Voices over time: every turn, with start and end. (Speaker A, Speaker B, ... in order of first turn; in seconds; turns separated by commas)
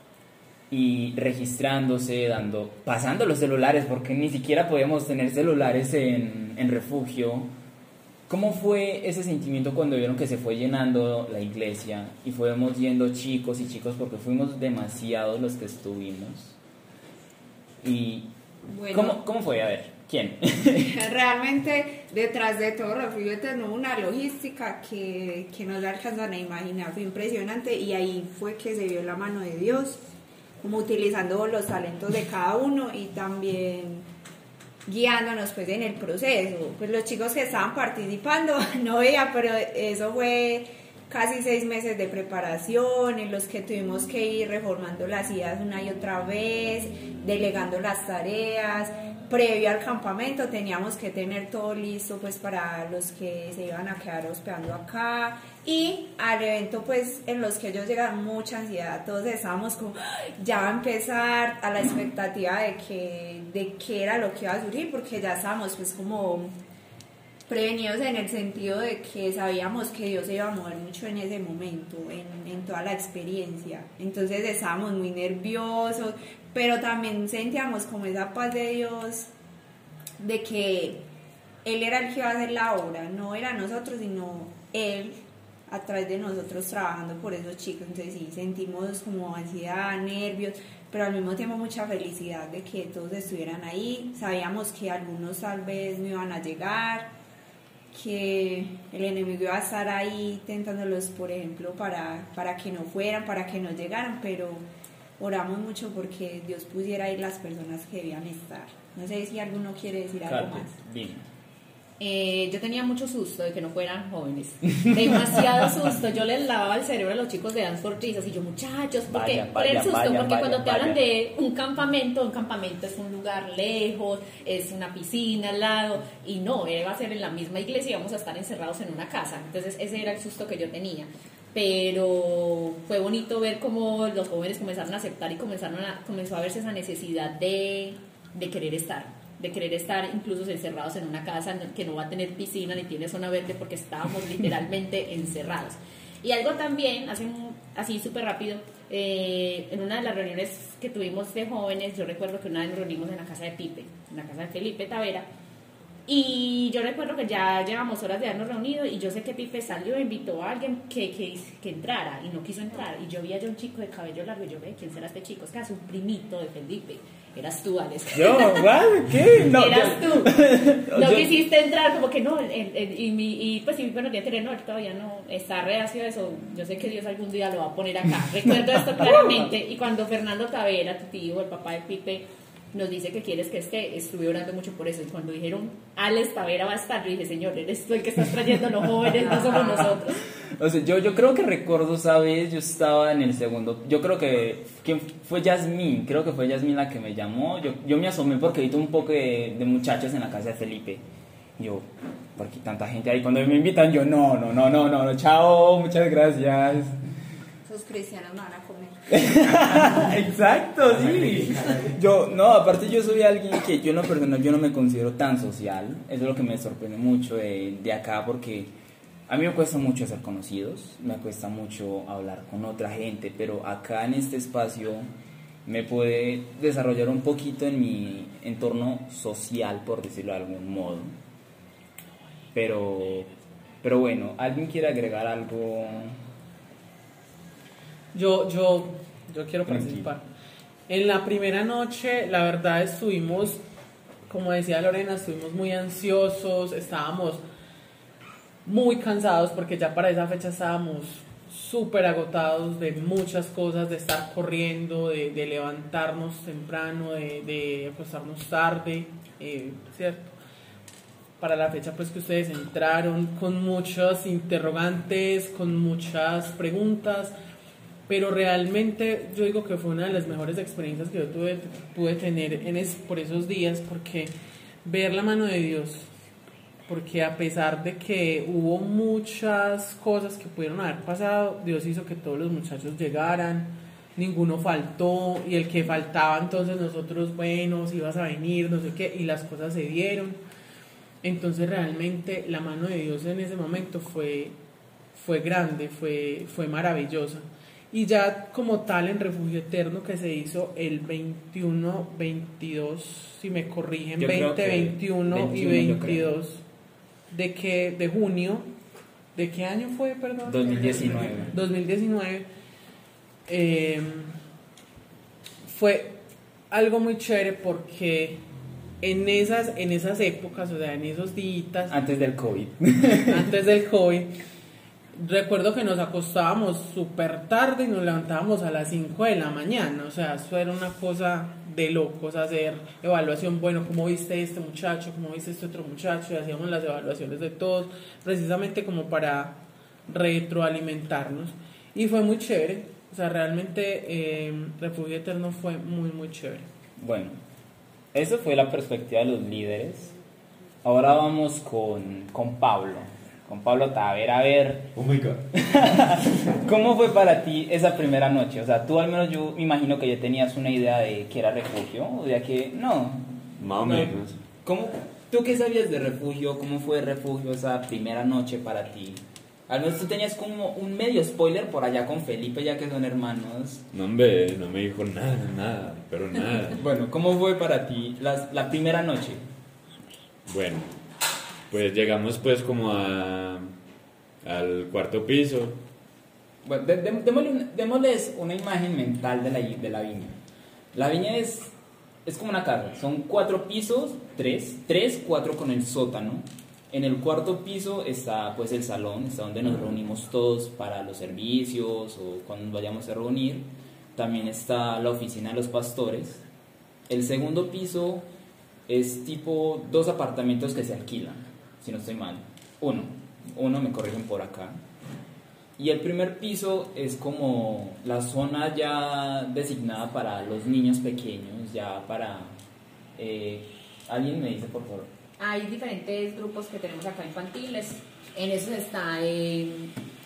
Speaker A: 0.7-7.5, Speaker A: 8.3-16.6, Speaker A: 17.8-18.3, Speaker B: 18.7-19.2, Speaker A: 18.9-20.9, Speaker B: 20.8-30.0, Speaker B: 30.6-34.1, Speaker B: 34.9-66.6, Speaker B: 67.5-79.3, Speaker B: 80.2-81.0, Speaker B: 81.6-97.1, Speaker B: 97.9-104.7, Speaker B: 105.2-110.7, Speaker A: 110.2-111.3, Speaker C: 112.0-155.3, Speaker A: 119.1-121.0, Speaker C: 156.1-168.8, Speaker A: 168.2-171.3, Speaker C: 169.4-190.2, Speaker A: 189.2-189.9, Speaker A: 190.6-201.0, Speaker A: 201.6-207.0, Speaker B: 207.6-209.0, Speaker A: 209.1-218.7, Speaker A: 219.3-225.1, Speaker A: 225.7-231.2, Speaker A: 232.5-233.3, Speaker A: 233.8-236.2, Speaker D: 238.1-240.3, Speaker A: 239.7-240.1, Speaker D: 240.9-243.6, Speaker D: 244.3-247.4, Speaker D: 248.7-260.3, Speaker D: 261.4-267.3, Speaker D: 268.1-274.3, Speaker D: 274.8-276.1, Speaker D: 276.9-290.4, Speaker D: 291.2-294.6, Speaker D: 295.1-306.6, Speaker A: 304.2-306.3, Speaker D: 307.3-308.7, Speaker D: 309.4-312.5, Speaker A: 310.4-311.6, Speaker D: 313.5-314.4, Speaker D: 315.6-316.2, Speaker D: 316.7-318.4, Speaker D: 319.0-321.9, Speaker A: 321.9-323.4, Speaker D: 323.3-324.3, Speaker D: 325.1-346.7, Speaker A: 347.0-347.4, Speaker A: 348.1-350.1, Speaker A: 350.8-354.9, Speaker E: 354.9-355.4, Speaker A: 355.6-373.8, Speaker E: 363.6-364.4, Speaker E: 373.9-376.8, Speaker A: 376.8-379.4, Speaker E: 380.5-380.9, Speaker E: 381.7-383.7, Speaker E: 384.4-385.8, Speaker A: 386.6-390.4, Speaker A: 390.9-391.7, Speaker A: 392.3-406.4, Speaker A: 407.1-408.2, Speaker A: 408.9-414.8, Speaker A: 415.8-422.6, Speaker A: 423.2-425.1, Speaker C: 425.4-429.9